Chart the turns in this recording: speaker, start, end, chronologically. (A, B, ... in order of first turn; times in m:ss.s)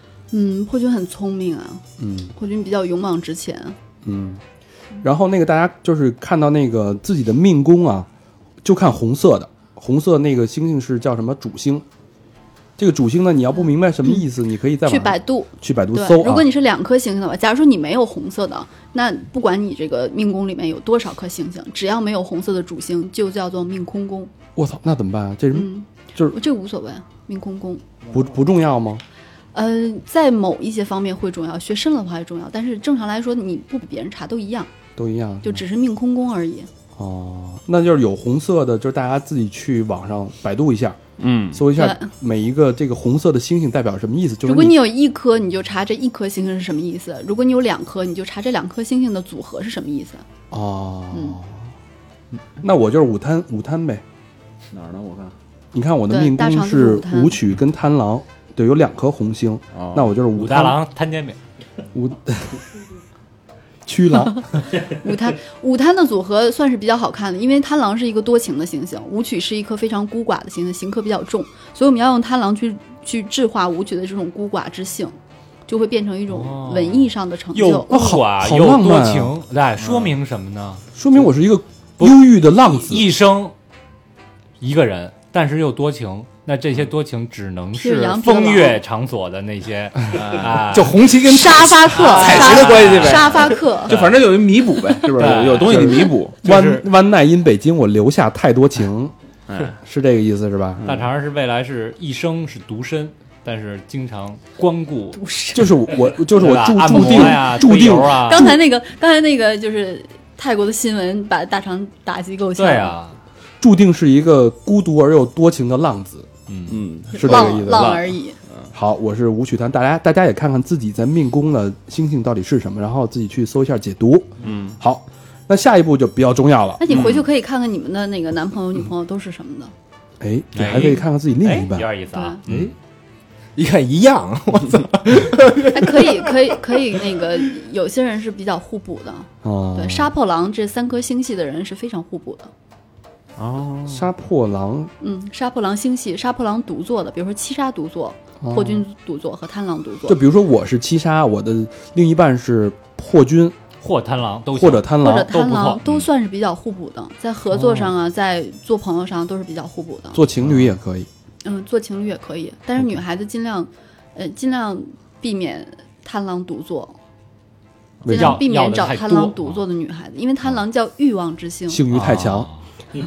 0:00.3-0:01.8 A
0:02.0-0:02.3 B
0:02.4-0:03.8 A
0:04.0-0:04.4 B
0:05.0-0:08.1 B
0:08.6-0:11.8 B
0:12.8-0:16.5 B
0:14.9-0:24.3 A
0:24.6-0:26.4 B
0:25.5-0:27.8 A
0:28.1-0:29.0 B
0:29.5-0:34.7 A
0:35.0-0:35.6 B
0:35.4-0:36.7 A
0:37.0-0:41.0 B
0:41.2-0:41.6 C
0:41.5-0:44.8 B
0:41.8-0:42.1 A
0:44.4-0:50.2 A
0:50.5-0:51.6 B
0:51.1-0:51.4 A
0:52.6-0:54.0 B
0:54.7-0:55.3 C
0:55.7-1:00.8 B
0:56.1-0:57.4 A
0:59.7-1:00.1 C
1:00.4-1:01.4 D
1:01.9-1:02.6 B
1:03.9-1:04.5 B
1:04.8-1:15.2 A
1:15.7-1:17.9 A
1:16.3-1:20.8 D
1:17.9-1:19.3 B
1:19.8-1:20.2 C
1:21.0-1:23.1 B
1:22.8-1:23.5 D
1:24.6-1:31.1 D
1:27.7-1:28.8 A
1:30.1-1:30.6 C
1:30.6-1:33.9 E
1:31.3-1:34.0 A
1:32.0-1:33.3 D
1:33.9-1:36.4 C
1:35.2-1:36.1 D
1:35.6-1:36.8 E
1:35.7-1:39.1 B
1:39.5-1:39.8 C
1:39.8-1:40.8 B
1:40.8-1:41.1 C
1:40.8-1:45.2 D
1:45.1-1:45.8 A
1:45.6-1:48.6 B
1:46.3-1:48.6 D
1:47.0-1:47.4 A
1:48.1-1:53.0 A
1:52.6-1:53.2 D
1:53.6-1:56.3 B
1:56.5-1:56.8 D
1:56.7-1:58.7 C
1:57.1-1:58.4 A
1:57.1-1:58.0 B
1:58.7-2:06.8 B
2:04.4-2:04.8 C
2:06.8-2:09.7 A
2:06.9-2:07.3 C
2:10.2-2:11.9 B
2:10.6-2:12.4 D
2:12.1-2:12.4 A
2:12.5-2:12.7 B
2:13.6-2:16.8 E
2:15.7-2:22.5 A
2:19.4-2:20.1 B
2:23.4-2:24.1 C
2:23.9-2:24.9 B
2:25.0-2:30.2 A
2:28.4-2:28.8 B
2:30.1-2:33.6 B
2:33.8-2:35.8 D
2:34.5-2:35.3 B
2:35.0-2:40.2 A
2:37.5-2:37.9 B
2:40.1-2:41.1 B
2:41.4-2:47.0 A
2:48.0-2:48.4 B
2:48.1-2:49.6 D
2:48.1-2:51.8 A
2:51.7-2:52.5 B
2:51.9-2:52.6 D